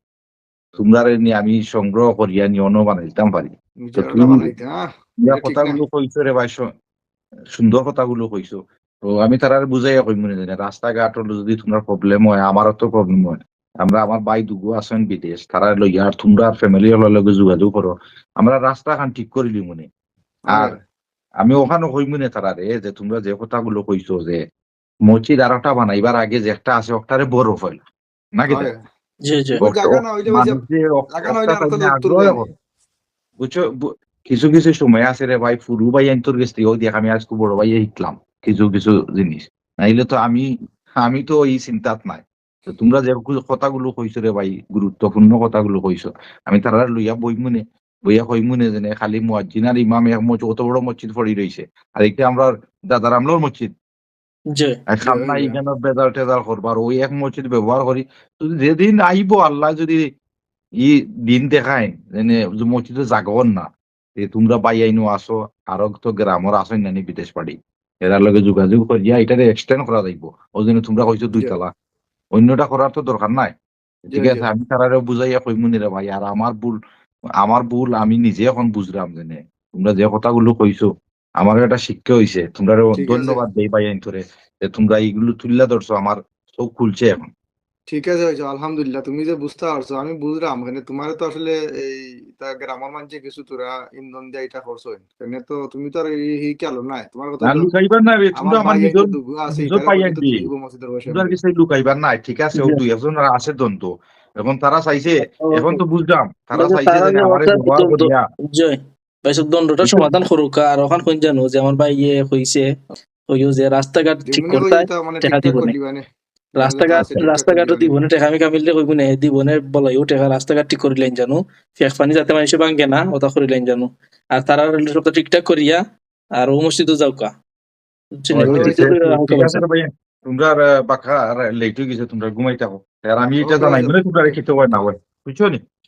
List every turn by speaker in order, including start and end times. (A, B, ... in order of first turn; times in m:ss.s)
0:00.8-0:04.5 A
0:03.9-0:05.8 B
0:05.2-0:06.6 A
0:07.5-0:19.9 A
0:20.5-0:20.8 B
0:21.4-0:24.4 A
0:25.1-0:27.8 A
0:28.4-0:28.7 A
0:28.5-0:28.8 B
0:29.3-0:29.6 C
0:29.6-0:30.6 B
0:29.6-0:32.5 A
0:31.1-0:32.5 B
0:33.4-0:40.5 A
0:41.0-0:53.7 A
0:54.9-1:00.0 A
0:55.0-0:55.6 B
1:00.8-1:03.6 A
1:04.2-1:11.7 A
1:12.3-1:13.5 A
1:14.1-1:14.4 B
1:14.1-1:16.8 A
1:17.4-1:20.9 A
1:21.4-1:27.3 A
1:23.0-1:23.4 B
1:27.9-1:37.7 B
1:37.4-1:40.4 A
1:38.4-1:41.3 B
1:41.1-1:48.2 A
1:45.2-1:45.8 C
1:46.6-1:52.7 C
1:49.8-1:50.1 A
1:53.3-1:55.7 C
1:54.2-1:56.0 B
1:56.6-2:05.8 C
1:56.6-1:57.9 B
2:06.4-2:07.3 C
2:08.2-2:09.6 C
2:08.3-2:15.6 A
2:08.4-2:08.9 B
2:13.4-2:14.4 B